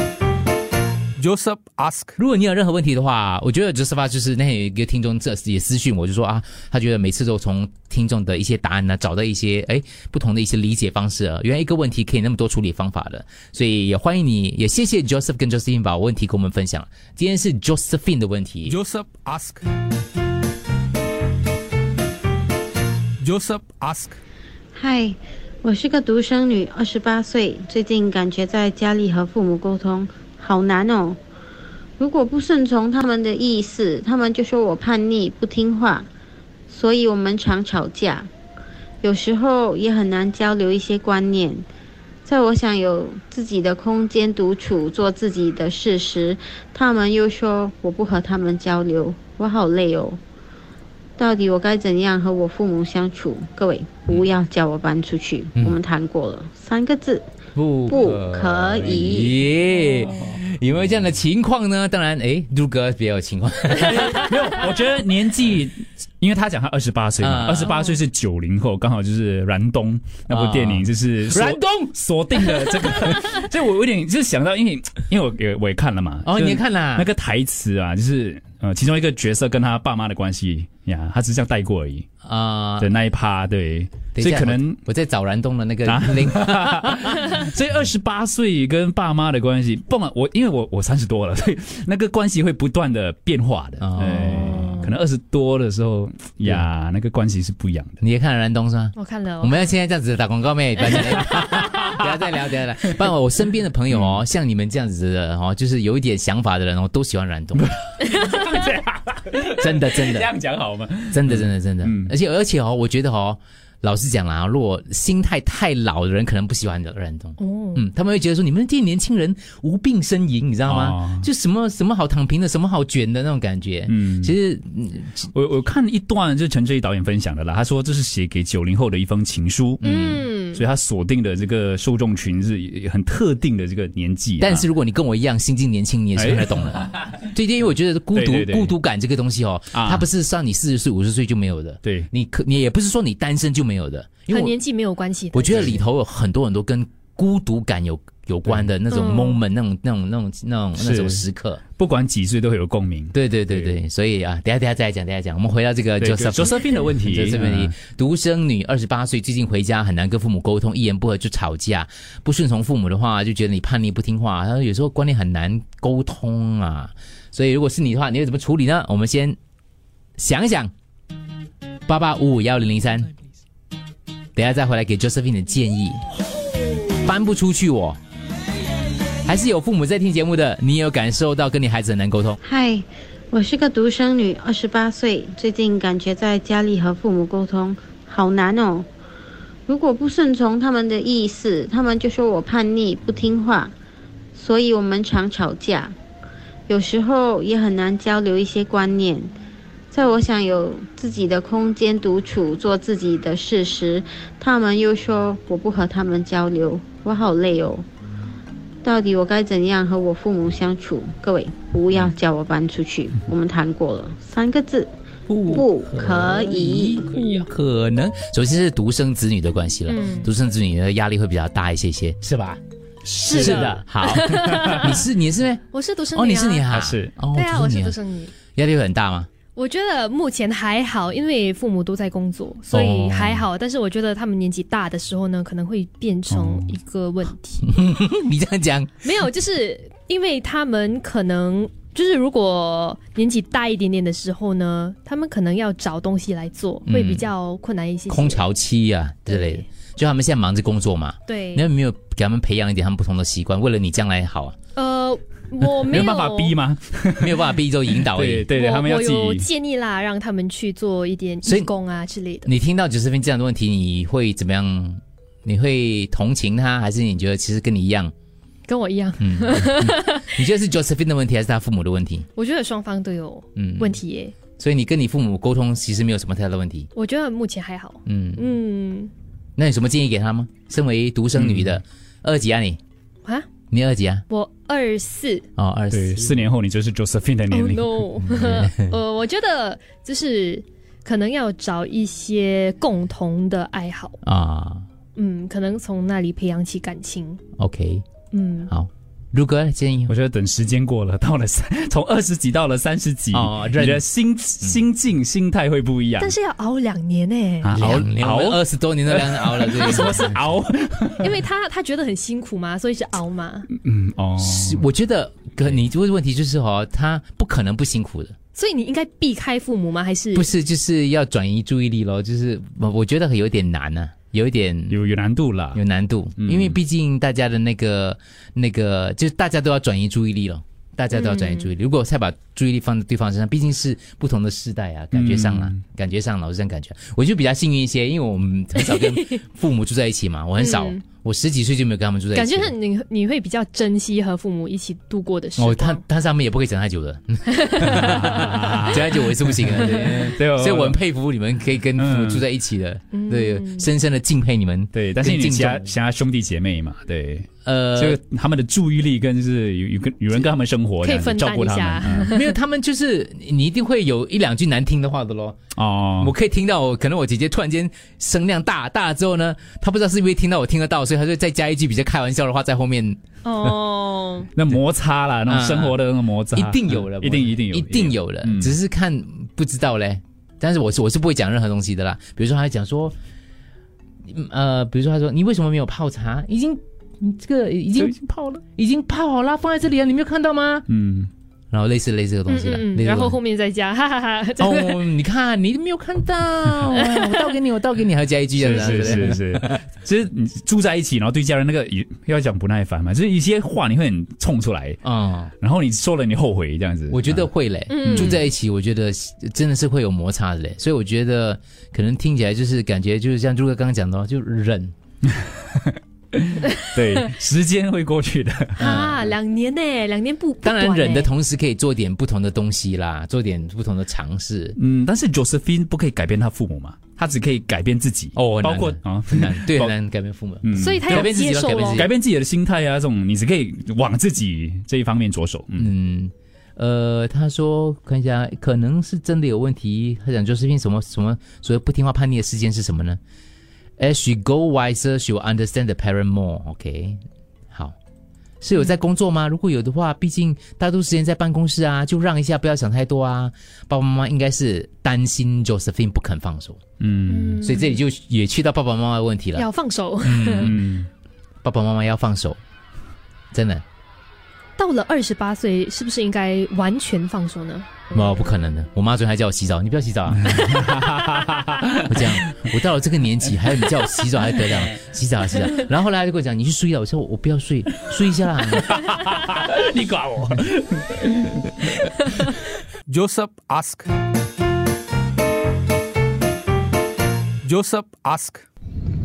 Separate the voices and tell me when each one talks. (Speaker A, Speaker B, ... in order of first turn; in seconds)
Speaker A: 1.2-2.2, 18.7-19.6, 23.2-24.2, 483.1-484.1, 487.6-488.6
Speaker B: 2.2-18.8, 57.5-64.3, 67.2-67.7, 70.3-73.2, 76.2-77.1, 82.2-82.9, 84.2-87.2, 93.8-94.7, 98.0-107.7, 109.6-110.3, 111.1-125.3, 129.8-130.3, 134.4-144.6, 145.3-151.6, 153.1-169.4, 170.2-170.7, 171.9-173.1, 174.4-176.0, 176.9-178.0, 179.2-182.4, 215.3-222.6, 223.3-229.3, 232.7-233.5, 237.6-239.1, 246.9-247.3, 248.1-254.6, 257.2-258.5, 261.4-261.7, 262.4-268.1, 269.2-272.3, 273.6-276.9, 278.1-278.6, 279.6-282.8, 283.7-284.2, 285.6-286.5, 288.2-289.0, 294.2-294.9, 297.6-298.0, 298.7-300.1, 303.3-304.1, 307.7-310.4, 314.4-318.4, 320.3-325.0, 325.7-342.7, 345.6-355.9, 357.6-358.2, 362.3-365.6, 366.2-373.8, 375.5-376.0, 376.5-383.2, 384.3-390.9, 391.7-393.4, 394.6-399.7, 405.0-405.5, 407.1-414.9, 418.8-419.4, 420.6-424.8, 428.4-432.1, 435.8-443.2, 444.0-447.2, 448.6-456.8, 457.6-460.8, 461.6-462.6, 463.5-463.8, 468.1-470.5, 472.1-478.9
Speaker C: 24.8-31.2, 32.0-36.1, 36.7-38.3, 39.0-41.7, 42.2-50.2, 51.2-57.3, 57.9-59.3, 182.4-188.9, 189.7-193.7, 194.3-196.0, 196.7-199.3, 199.9-207.9, 208.8-214.9, 215.5-217.1
Speaker D: 60.0-60.4, 63.8-82.1, 82.8-84.8, 85.9-98.0, 101.0-102.0, 103.9-104.2, 107.6-112.1, 120.7-121.3, 123.9-124.3, 125.3-134.7, 136.2-136.9, 138.1-138.7, 139.7-140.1, 141.8-142.1, 150.8-151.2, 151.8-153.8, 156.0-157.7, 217.2-217.5, 223.0-225.0, 226.7-227.1, 236.3-236.7, 255.9-259.5, 281.4-281.8, 285.9-288.0, 300.1-306.4, 307.6-311.4, 313.7-314.9, 324.9-325.8, 326.4-326.8, 335.1-335.8, 347.8-351.0, 351.9-352.4, 354.9-362.3, 365.8-366.3, 374.5-378.8, 390.9-391.3, 398.6-405.0, 405.6-407.5, 408.1-408.4, 415.9-419.0, 424.8-429.9, 430.6-435.9, 457.0-457.6, 460.5-461.1, 470.4-472.6, 473.8-474.8, 478.7-482.3
Speaker E: 94.4-94.9, 99.0-99.7, 117.4-117.8, 129.8-130.6, 144.3-145.8, 148.9-149.4, 219.9-220.3, 223.3-224.8, 225.7-226.7, 227.3-228.4, 229.6-237.7, 239.0-248.5, 249.3-249.6, 251.3-251.7, 254.8-256.6, 258.5-262.5, 268.7-270.3, 272.4-274.4, 276.9-279.1, 283.2-283.6, 284.3-285.5, 287.5-294.2, 295.1-297.4, 298.3-298.7, 306.2-307.8, 309.8-310.3, 311.2-313.7, 318.5-320.5, 331.1-331.7, 338.8-339.3, 340.6-341.0, 342.3-346.0, 347.5-347.8, 353.1-353.9, 361.0-362.5, 373.4-374.5, 392.5-395.1, 396.9-397.6, 407.9-408.3, 418.8-421.3, 430.8-432.0, 457.3-458.0, 459.6-460.7, 464.8-468.1